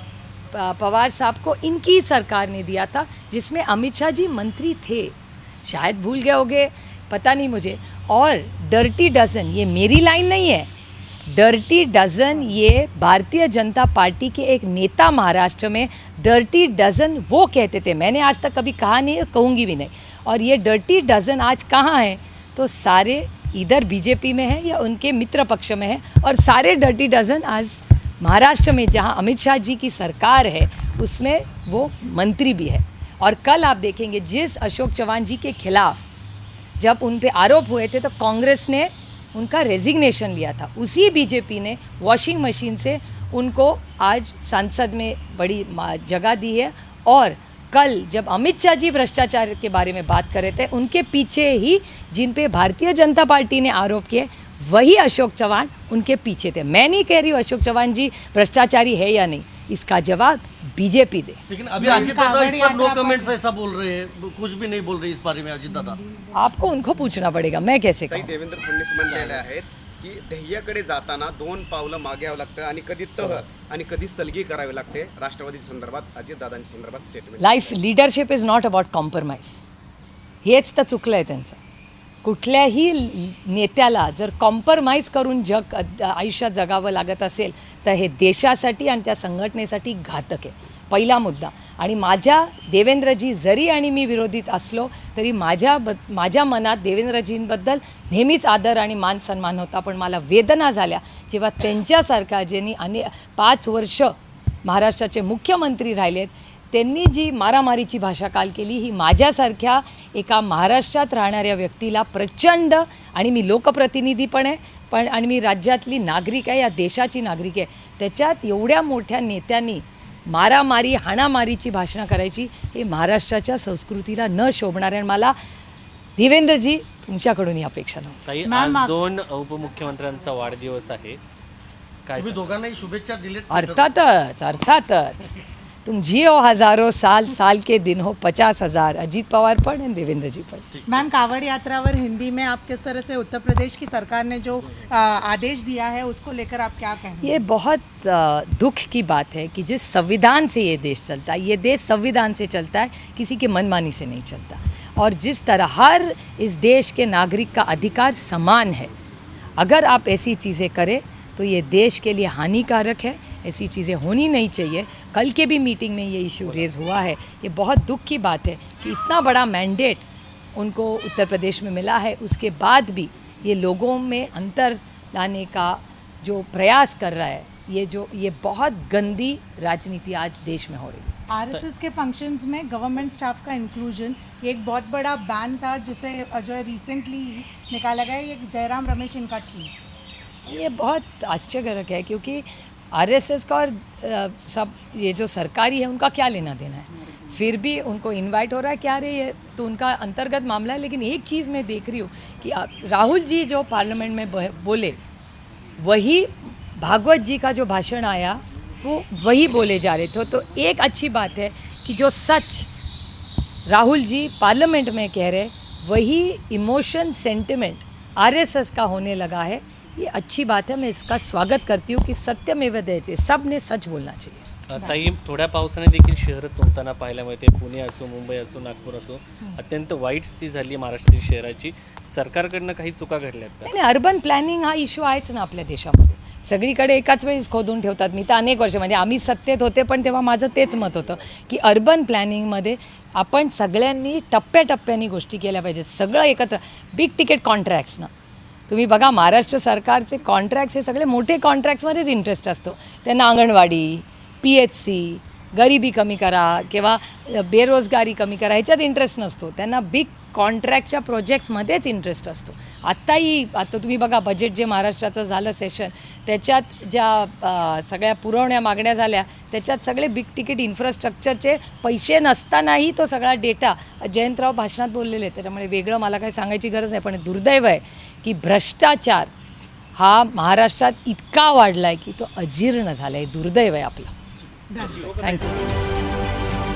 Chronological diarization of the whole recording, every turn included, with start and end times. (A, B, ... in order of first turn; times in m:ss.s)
0:00.5-0:10.7 A
0:11.3-0:36.1 A
0:36.8-1:01.4 A
1:01.5-1:06.0 B
1:01.8-1:03.3 C
1:06.3-1:08.3 A
1:08.1-1:17.8 D
1:09.1-1:09.4 B
1:17.4-1:19.6 A
1:20.4-1:21.6 A
1:22.2-2:05.3 A
2:06.2-2:08.2 A
2:08.2-2:11.2 E
2:08.4-2:08.9 C
2:12.0-2:12.5 E
2:12.2-2:13.9 B
2:13.5-2:15.3 A
2:15.8-2:20.6 A
2:20.7-2:21.3 B
2:20.9-2:27.4 C
2:27.2-2:38.9 A
2:39.6-3:01.1 A
3:01.3-3:09.8 C
3:10.4-3:25.0 A
3:25.8-3:32.7 A
3:33.7-3:44.4 A
3:44.7-3:53.7 E
3:53.6-4:08.1 A
4:08.7-4:39.3 A
4:40.0-4:44.1 A
4:44.7-4:45.5 C
4:45.0-4:45.5 A